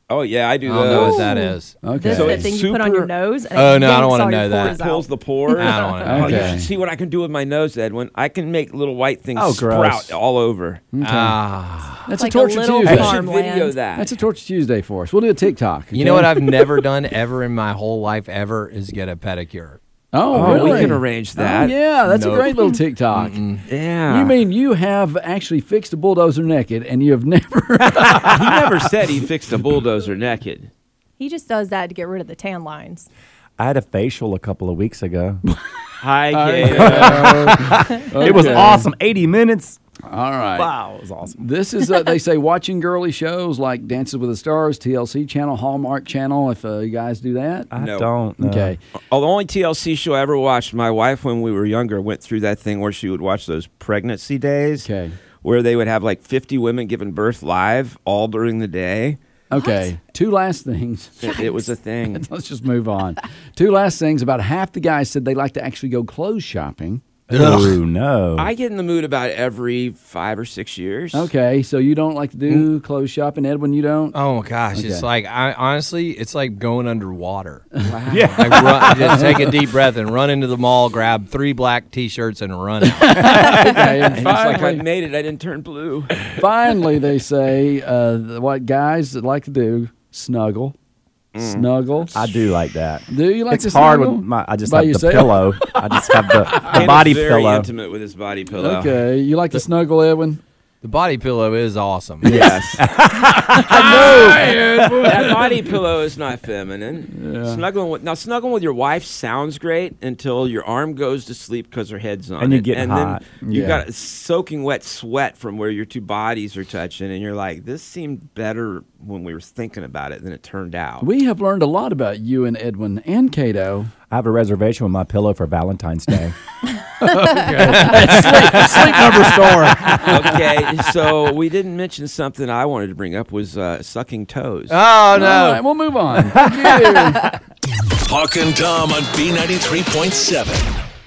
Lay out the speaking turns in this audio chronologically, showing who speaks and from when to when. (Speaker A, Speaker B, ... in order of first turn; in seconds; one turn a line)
Speaker A: 0.1-1.3
Speaker B: 0.7-1.8
Speaker C: 0.8-6.0
Speaker D: 1.8-2.5
Speaker A: 2.1-3.1
Speaker B: 3.5-4.8
Speaker A: 4.6-10.8
Speaker B: 5.5-6.6
Speaker D: 6.0-6.7
Speaker E: 9.3-10.2
Speaker D: 10.9-11.4
Speaker B: 11.0-12.1
Speaker D: 12.1-13.2
Speaker C: 12.1-13.8
Speaker E: 12.8-13.2
Speaker A: 12.9-14.1
Speaker D: 14.0-16.7
Speaker B: 15.9-19.8
Speaker D: 20.1-23.4
Speaker A: 20.3-21.8
Speaker B: 20.5-20.9
Speaker B: 22.1-23.6
Speaker A: 23.7-24.4
Speaker D: 24.1-28.6
Speaker A: 28.1-30.7
Speaker C: 31.2-33.1
Speaker E: 33.6-35.4
Speaker A: 36.0-37.6
Speaker D: 36.3-38.9
Speaker E: 36.7-39.8
Speaker C: 38.2-38.5
Speaker D: 40.1-40.7
Speaker E: 40.6-41.4
Speaker D: 41.4-47.7
Speaker E: 47.7-48.8
Speaker A: 47.8-48.1
Speaker D: 48.4-48.8
Speaker A: 49.1-54.9
Speaker D: 54.8-55.2
Speaker A: 55.4-59.2
Speaker D: 59.5-61.4
Speaker C: 59.5-59.9
Speaker A: 61.2-62.3
Speaker C: 61.3-61.6
Speaker D: 62.1-67.0
Speaker B: 67.3-67.8
Speaker E: 67.3-68.5
Speaker A: 68.4-71.3
Speaker D: 71.1-74.2
Speaker B: 74.1-77.7
Speaker D: 74.7-75.1
Speaker A: 77.8-78.4
Speaker E: 78.1-79.2
Speaker B: 78.4-83.3
Speaker D: 82.9-84.8
Speaker A: 84.1-86.4
Speaker D: 86.3-90.8
Speaker A: 91.3-92.3
Speaker D: 91.4-92.1
Speaker E: 92.1-97.7
Speaker D: 93.1-95.7
Speaker A: 96.6-99.0
Speaker D: 98.6-100.4
Speaker B: 100.8-102.4
Speaker A: 102.2-102.9
Speaker D: 102.3-102.6
Speaker E: 102.4-105.3
Speaker D: 103.5-105.5
Speaker A: 103.6-121.1
Speaker D: 107.1-107.6
Speaker E: 112.4-113.7
Speaker D: 113.5-113.8
Speaker D: 121.0-123.9
Speaker E: 124.1-126.4
Speaker D: 127.0-130.4
Speaker B: 127.9-128.7
Speaker A: 130.0-134.8
Speaker B: 134.7-135.6
Speaker D: 135.1-137.2
Speaker F: 138.1-140.8